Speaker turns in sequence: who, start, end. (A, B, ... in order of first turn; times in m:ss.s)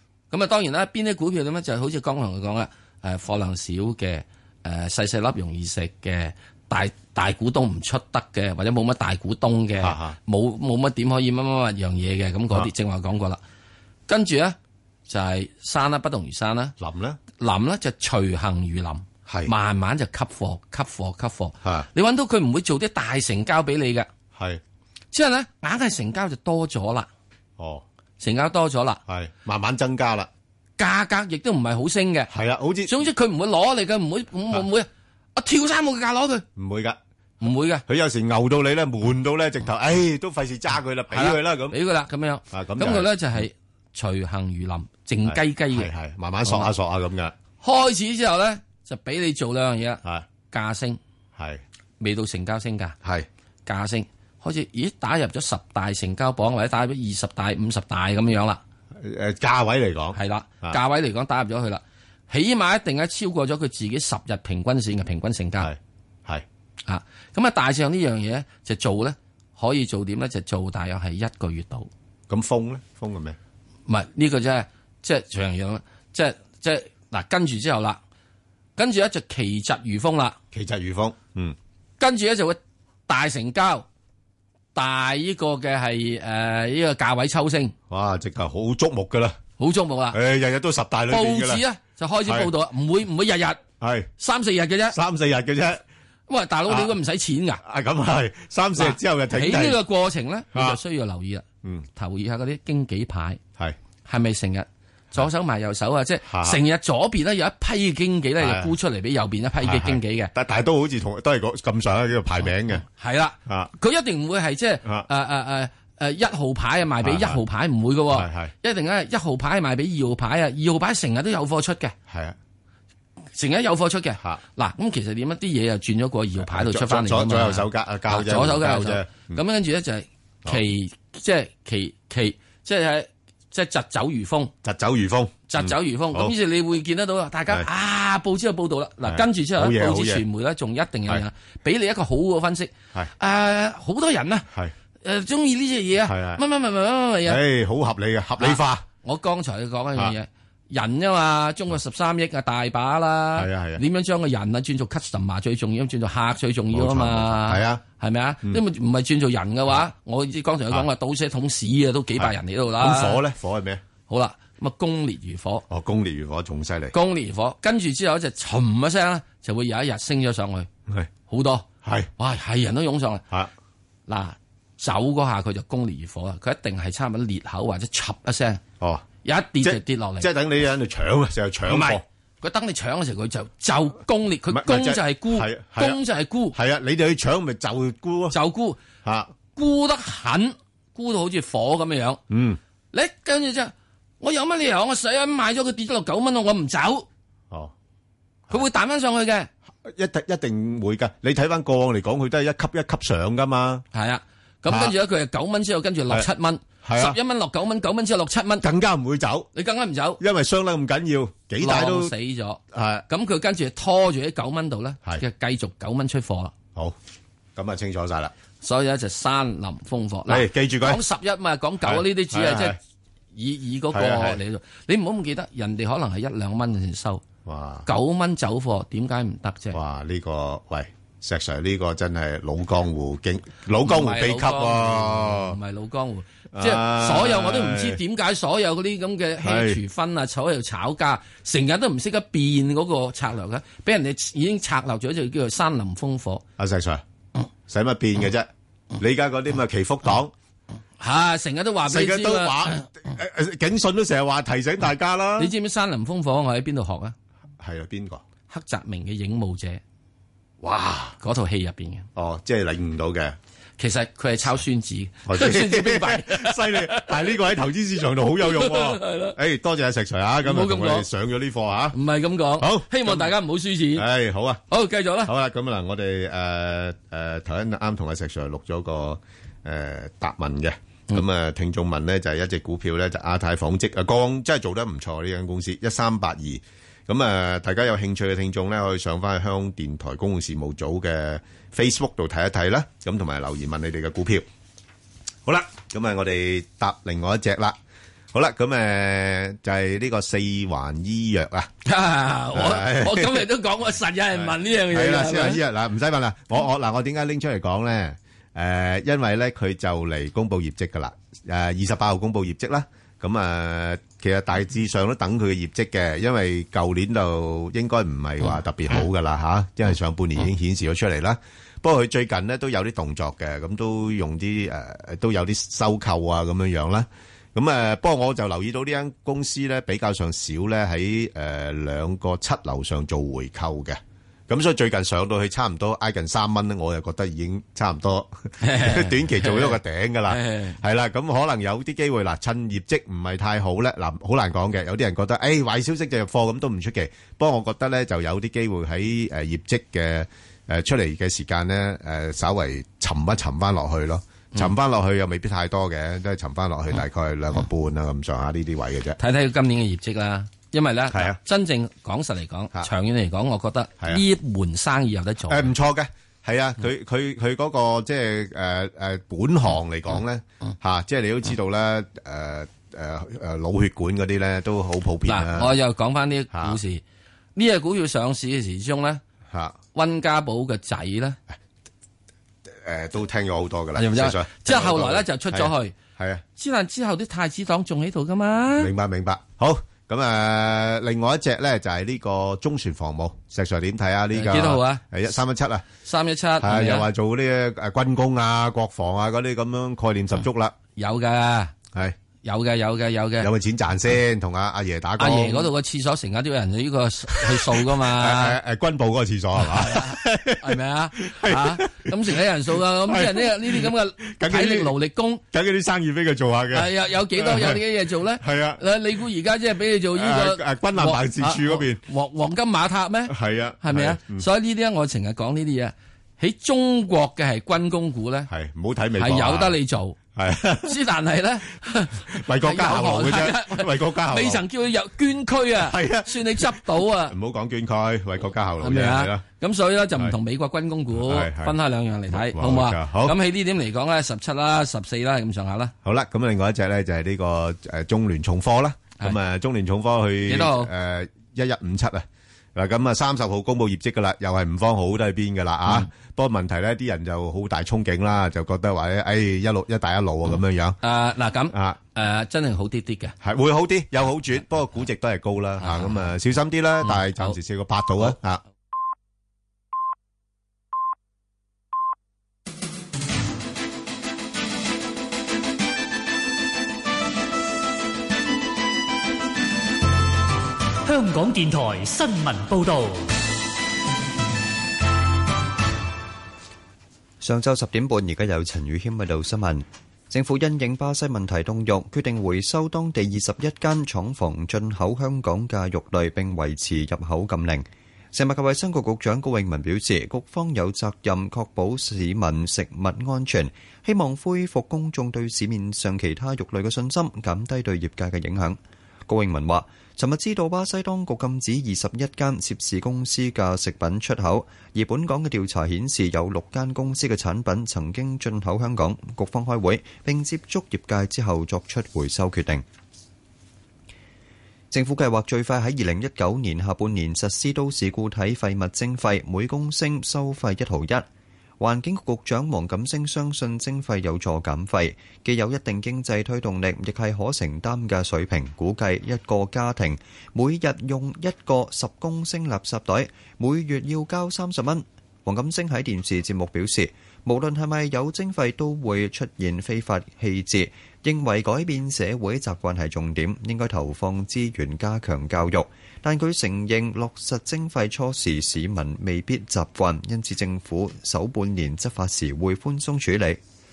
0:00.3-0:13.4 A
0:09.8-0:10.2 B
0:14.1-0:14.6 A
0:15.1-0:16.7 A
0:16.8-0:17.2 B
0:17.4-0:24.1 A
0:19.3-0:19.5 B
0:25.1-0:27.1 A
0:27.6-0:27.8 B
0:28.2-0:29.0 A
0:29.1-0:30.3 B
0:30.8-0:32.3 A
0:32.3-0:32.9 B
0:32.8-0:36.4 A
0:36.6-0:37.0 B
0:37.4-0:37.8 A
0:37.9-0:41.8 B
0:41.1-0:45.9 A
0:42.5-0:43.4 B
0:45.2-0:47.3 B
0:46.4-0:46.7 A
0:47.6-0:51.0 A
0:52.0-0:53.0 A
0:53.6-0:58.6 A
0:59.0-1:00.8 B
1:00.2-1:05.7 A
1:05.6-1:06.4 B
1:06.9-1:11.9 A
1:12.3-1:13.4 B
1:13.9-1:18.0 A
1:18.8-1:20.4 A
1:20.5-1:21.6 B
1:22.0-1:23.8 A
1:24.7-1:27.7 A
1:27.9-1:29.4 B
1:29.6-1:30.2 A
1:30.1-1:31.6 B
1:31.1-1:33.6 A
1:33.8-1:34.1 B
1:34.2-1:35.0 A
1:34.9-1:35.8 B
1:36.3-1:37.6 A
1:37.6-1:39.8 B
1:38.8-1:41.4 A
1:42.0-1:43.4 A
1:44.0-1:50.3 A
1:46.2-1:46.6 B
1:48.4-1:48.7 B
1:49.6-1:52.8 B
1:52.4-2:01.9 A
1:57.0-1:57.4 B
1:58.1-1:58.5 B
2:02.1-2:02.4 B
2:03.4-2:14.5 A
2:06.4-2:09.4 B
2:14.6-2:16.3 B
2:15.5-2:24.5 A
2:19.1-2:20.2 B
2:25.0-2:27.4 A
2:26.0-2:26.4 B
2:27.2-2:28.8 B
2:28.4-2:43.2 A
2:33.4-2:33.8 B
2:36.7-2:37.8 B
2:42.2-2:43.8 B
2:44.1-2:45.6 A
2:45.7-2:46.9 B
2:46.9-2:50.7 A
2:51.3-2:51.6 A
2:51.8-2:52.1 B
2:52.2-2:53.2 A
2:54.1-2:58.6 A
2:58.8-2:59.0 B
2:59.2-3:00.3 A
2:59.6-3:02.0 B
3:01.6-3:06.6 A
3:04.5-3:06.0 B
3:06.5-3:08.3 B
3:08.3-3:08.8 A
3:09.0-3:09.3 B
3:09.5-3:12.2 A
3:12.3-3:12.6 B
3:12.9-3:17.0 A
3:18.5-3:19.5 A
3:19.8-3:23.8 B
3:23.9-3:28.6 A
3:24.7-3:24.9 B
3:26.8-3:27.2 B
3:28.6-3:29.5 B
3:29.5-3:30.2 A
3:30.2-3:32.1 B
3:31.6-3:36.5 A
3:32.7-3:33.0 B
3:37.6-3:38.3 B
3:38.6-3:42.8 A
3:40.3-3:41.0 B
3:41.8-3:42.8 B
3:43.3-3:47.2 A
3:43.9-3:44.4 B
3:47.4-3:47.9 B
3:47.8-3:49.8 A
3:49.7-3:55.6 B
3:53.8-4:06.4 A
3:56.5-3:58.0 B
3:59.4-3:59.8 B
4:06.6-4:07.0 B
4:07.7-4:10.3 B
4:11.0-4:12.8 A
4:11.8-4:15.5 B
4:15.4-4:17.1 A
4:17.6-4:18.2 B
4:18.5-4:19.8 A
4:20.6-4:21.2 B
4:21.2-4:22.1 A
4:22.2-4:23.4 B
4:23.8-4:27.4 A
4:25.3-4:32.0 B
4:28.4-4:29.3 A
4:30.4-4:31.1 A
4:31.9-4:34.1 A
4:32.6-4:33.3 B
4:34.0-4:34.6 B
4:34.7-4:35.3 A
4:35.2-4:54.4 B
4:55.5-4:57.8 B
4:58.3-5:01.7 B
5:01.8-5:05.6 A
5:02.5-5:03.4 B
5:04.4-5:59.2 B
5:38.6-5:40.8 A
5:59.2-6:05.7 A
6:01.1-6:01.4 B
6:05.5-6:15.7 B
6:15.2-6:17.0 A
6:16.5-6:16.8 B
6:17.6-6:19.2 A
6:19.5-6:19.8 B
6:19.9-6:21.4 A
6:22.7-6:26.4 B
6:24.0-6:25.9 A
6:26.6-6:28.9 A
6:28.8-6:35.8 B
6:34.3-6:35.0 A
6:36.0-6:37.1 A
6:36.6-6:40.7 B
6:41.0-6:41.7 A
6:42.4-6:43.5 A
6:43.4-6:45.7 B
6:45.2-6:48.6 A
6:48.1-6:52.1 B
6:49.6-6:55.4 A
6:53.1-6:54.9 B
6:55.5-6:57.8 B
6:56.7-7:08.5 A
6:58.4-6:58.8 B
7:00.1-7:02.0 B
7:03.3-7:04.4 B
7:08.5-7:09.7 B
7:09.2-7:10.2 A
7:10.4-7:10.9 B
7:10.8-7:17.3 A
7:12.3-7:14.6 B
7:15.8-7:16.7 B
7:17.3-7:19.4 B
7:18.8-7:25.9 A
7:21.1-7:21.7 B
7:22.3-7:23.3 B
7:26.0-7:41.0 B
7:30.5-7:30.9 A
7:40.5-7:43.3 A
7:43.4-7:48.6 B
7:45.8-7:46.2 A
7:47.0-7:47.5 A
8:01.0-8:03.3 C
8:07.4-8:42.8 D
8:44.9-8:51.2 D
8:51.8-9:23.6 D